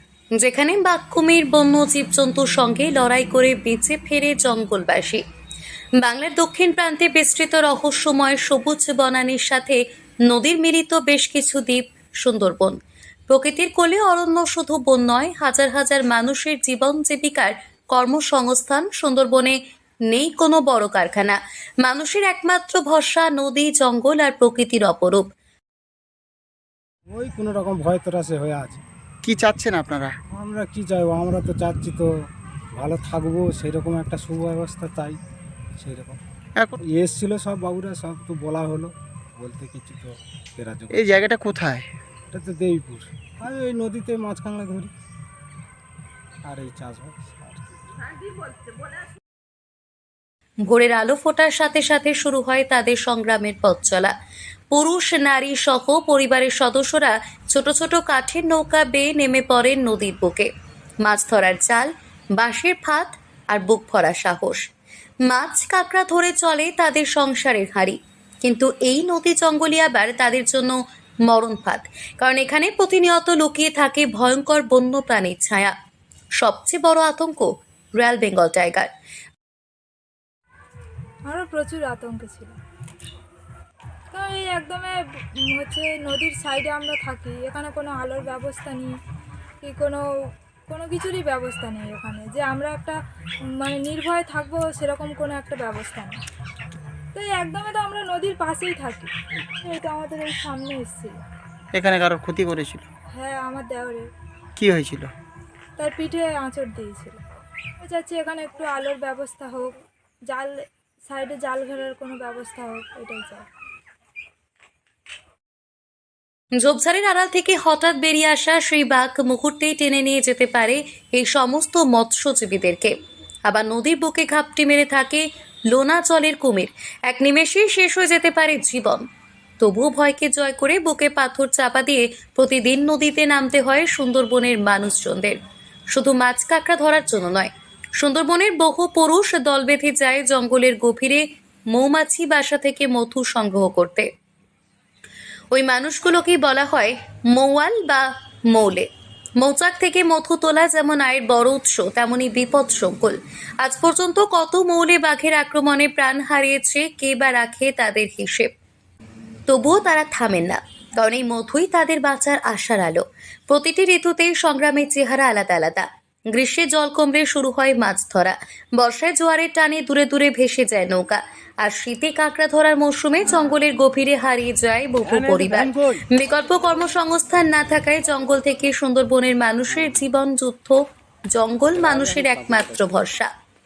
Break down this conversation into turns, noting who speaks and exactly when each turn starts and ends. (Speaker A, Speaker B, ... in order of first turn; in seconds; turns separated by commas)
Speaker A: 0.4-5.2, Speaker A: 6.0-12.8, Speaker A: 13.3-19.6, Speaker A: 20.1-25.3, Speaker B: 27.1-28.8, Speaker C: 29.2-30.1, Speaker B: 30.3-32.1, Speaker B: 32.8-35.2, Speaker B: 35.8-36.2, Speaker B: 36.9-41.1, Speaker C: 40.9-41.9, Speaker B: 42.3-44.9, Speaker B: 46.5-47.7, Speaker A: 50.7-54.1, Speaker A: 54.7-60.5, Speaker A: 61.0-64.7, Speaker A: 65.3-75.7, Speaker A: 76.4-78.9, Speaker D: 81.3-82.6, Speaker D: 84.1-89.0, Speaker D: 89.6-90.0, Speaker D: 90.7-93.0, Speaker D: 93.5-96.2, Speaker D: 97.1-101.2, Speaker C: 101.7-102.8, Speaker D: 103.2-104.1, Speaker C: 104.6-105.1, Speaker D: 105.8-107.2, Speaker D: 107.8-109.8, Speaker D: 110.3-113.5, Speaker A: 116.6-122.9, Speaker A: 123.5-129.1, Speaker A: 129.6-135.4, Speaker A: 135.9-144.1, Speaker A: 145.5-158.5, Speaker A: 159.5-180.8, Speaker A: 181.3-183.3